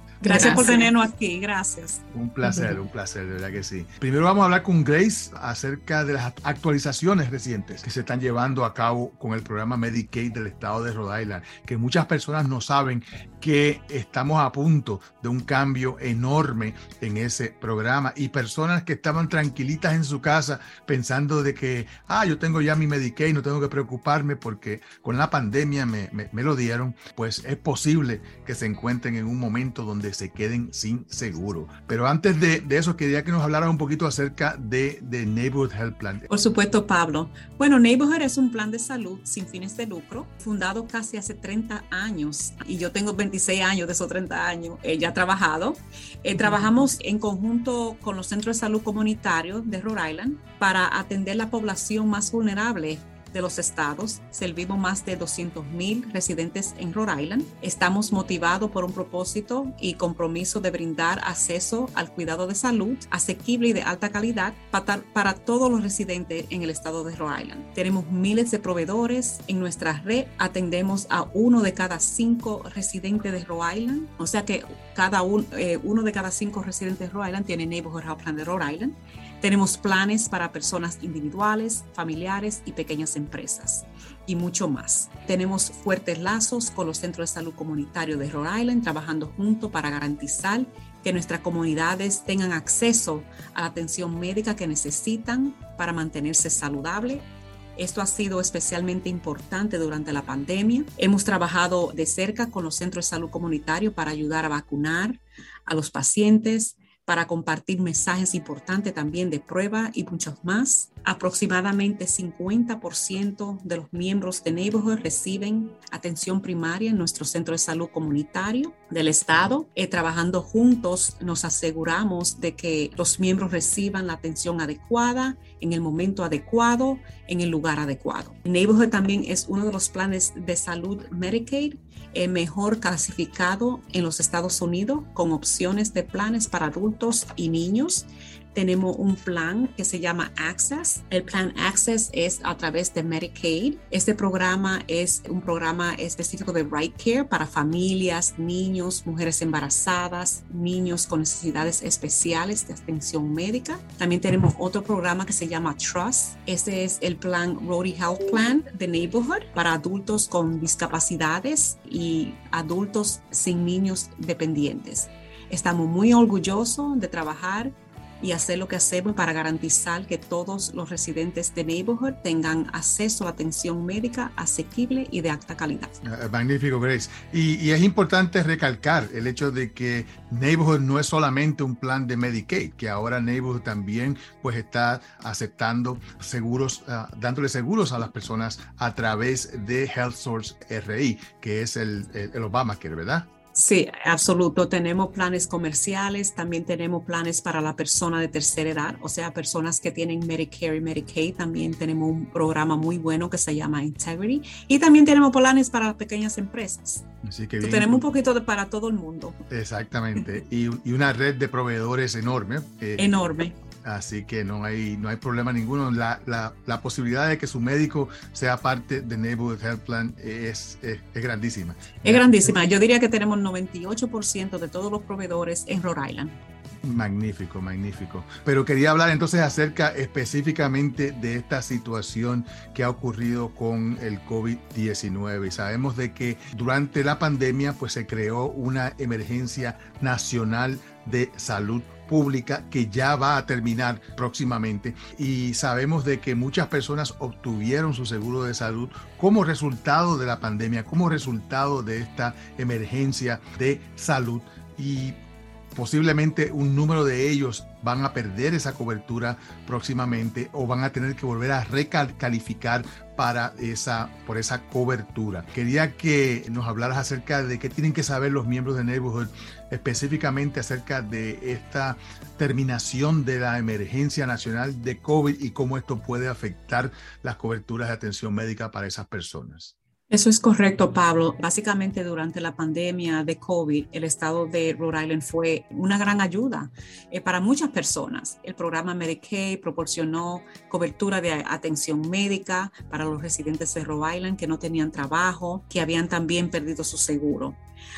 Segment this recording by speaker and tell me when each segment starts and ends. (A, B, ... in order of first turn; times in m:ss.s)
0:00.2-0:02.7 A
0:02.1-0:36.2 B
0:36.3-2:55.9 A
2:56.0-3:13.3 B
3:13.5-3:27.0 A
3:27.2-3:28.0 B
3:27.6-3:29.4 A
3:29.5-3:33.1 B
3:33.0-3:33.5 A
3:33.8-3:42.5 B
3:42.0-3:46.4 A
3:46.8-4:15.2 B
4:15.7-4:39.7 B
4:40.1-4:57.6 A